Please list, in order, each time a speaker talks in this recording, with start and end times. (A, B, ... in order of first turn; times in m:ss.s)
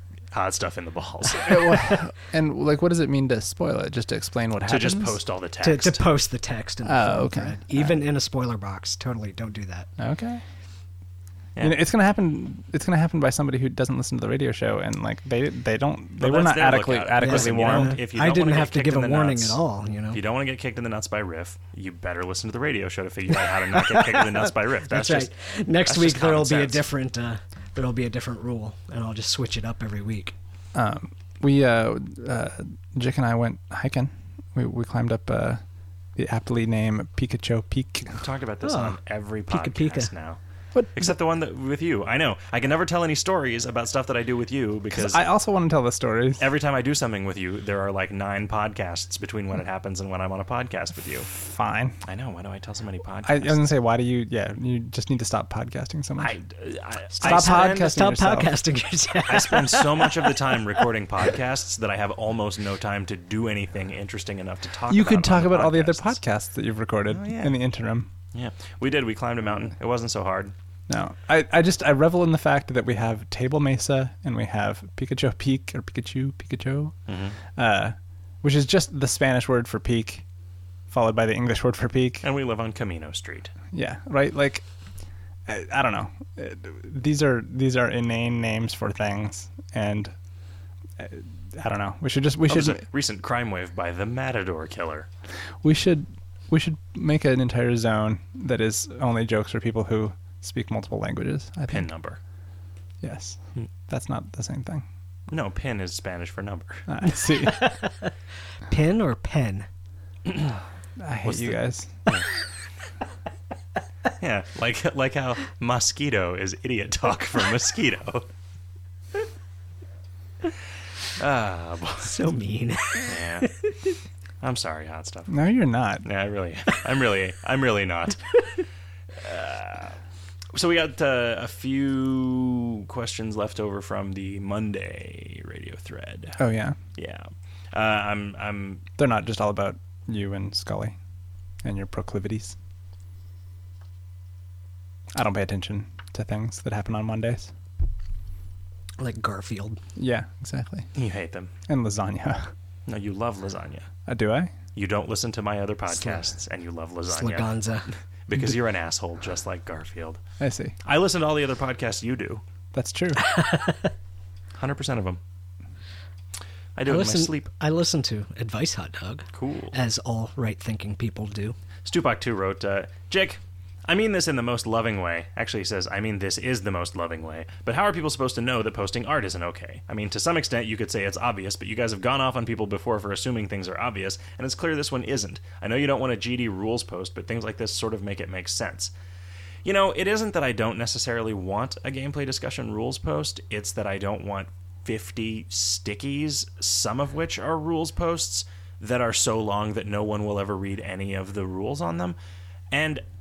0:00.3-0:01.9 A
0:01.3-0:05.2 B
0:04.6-0:06.1 A
0:05.6-0:09.9 C
0:06.8-0:08.0 B
0:10.0-0:10.4 B
0:11.6-0:11.8 A
0:11.6-0:18.0 B
0:16.2-0:19.6 A
0:17.2-0:20.2 C
0:20.1-0:25.3 A
0:23.7-0:30.3 C
0:25.8-0:26.8 A
0:30.7-0:35.6 B
0:36.2-0:38.2 B
0:38.2-0:40.4 A
0:38.6-0:40.1 C
0:40.7-0:41.2 B
0:40.9-0:45.3 A
0:44.9-0:46.5 B
0:46.4-0:51.3 A
0:51.3-0:52.0 B
0:52.0-0:53.6 A
0:53.2-0:56.4 B
0:56.2-0:57.9 A
0:57.2-0:58.5 B
0:57.2-1:00.8 C
0:59.2-1:06.2 A
1:04.9-1:08.1 B
1:07.1-1:07.6 A
1:08.3-1:10.5 A
1:10.9-1:20.2 B
1:17.1-1:17.4 A
1:20.9-1:22.2 B
1:22.2-1:23.5 A
1:23.7-1:24.6 B
1:25.5-1:30.1 B
1:31.0-1:32.8 B
1:32.5-1:35.1 A
1:35.6-1:41.9 B
1:41.7-1:42.2 A
1:43.0-1:44.8 B
1:45.3-1:46.9 A
1:46.9-1:47.7 B
1:47.4-1:48.1 C
1:48.6-1:49.7 C
1:50.3-1:50.6 A
1:51.0-1:52.1 B
1:51.2-1:52.3 A
1:54.1-1:58.3 A
2:01.2-2:02.2 A
2:02.0-2:03.9 C
2:03.0-2:03.5 A
2:04.4-2:05.3 A
2:05.3-2:06.0 B
2:06.0-2:08.4 A
2:09.2-2:10.0 A
2:10.5-2:16.4 A
2:16.4-2:16.8 B
2:17.0-2:18.8 A
2:19.0-2:21.0 B
2:21.6-2:22.6 B
2:25.1-2:27.5 B
2:29.0-2:29.8 C
2:30.0-2:30.9 B
2:30.9-2:31.5 A
2:31.7-2:32.5 B
2:32.9-2:33.9 A
2:34.1-2:34.5 B
2:34.7-2:37.6 A
2:35.9-2:36.3 C
2:37.1-2:37.9 C
2:38.2-2:40.2 A
2:40.4-2:40.8 B
2:40.8-2:42.4 A
2:42.7-2:43.2 B
2:43.2-2:43.9 C
2:44.5-2:45.2 A
2:46.8-2:47.5 A
2:46.8-2:51.6 C
2:49.3-2:49.8 A
2:51.8-3:08.9 A
3:09.6-3:22.2 A
3:22.7-3:23.0 A